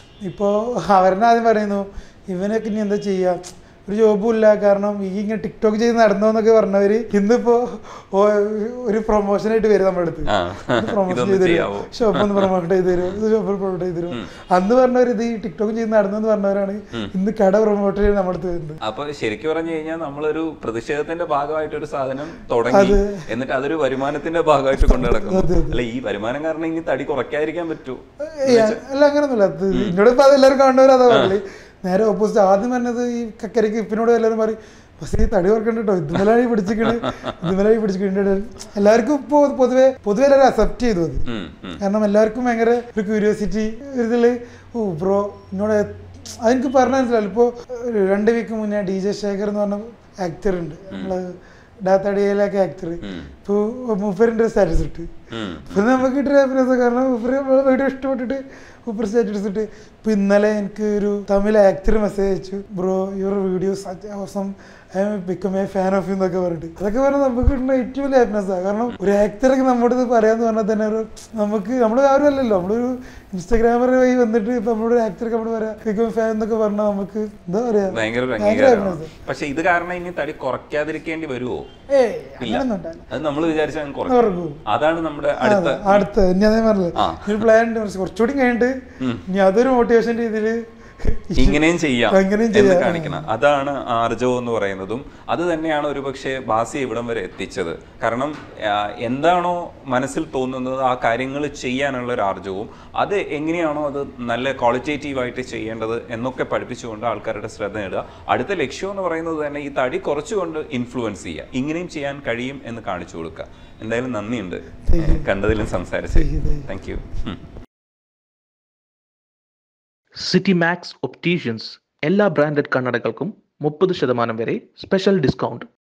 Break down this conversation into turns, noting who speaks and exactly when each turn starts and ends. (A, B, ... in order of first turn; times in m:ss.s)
0:00.2-0:18.8 A
0:10.3-0:13.2 B
0:18.8-0:28.8 B
0:22.7-0:23.3 A
0:24.8-0:25.8 A
0:28.2-0:41.3 A
0:31.1-0:31.4 B
0:41.3-0:41.8 B
0:41.8-0:55.1 A
0:53.0-0:53.3 B
0:55.3-0:55.9 B
0:55.7-1:19.1 A
1:17.9-1:21.7 B
1:21.9-1:23.1 A
1:22.4-1:26.1 B
1:24.1-1:24.6 A
1:25.4-1:28.8 A
1:27.0-1:27.4 B
1:29.3-1:33.2 A
1:31.4-1:57.5 B
1:54.9-1:55.3 A
1:56.2-1:56.7 A
2:00.2-2:05.7 C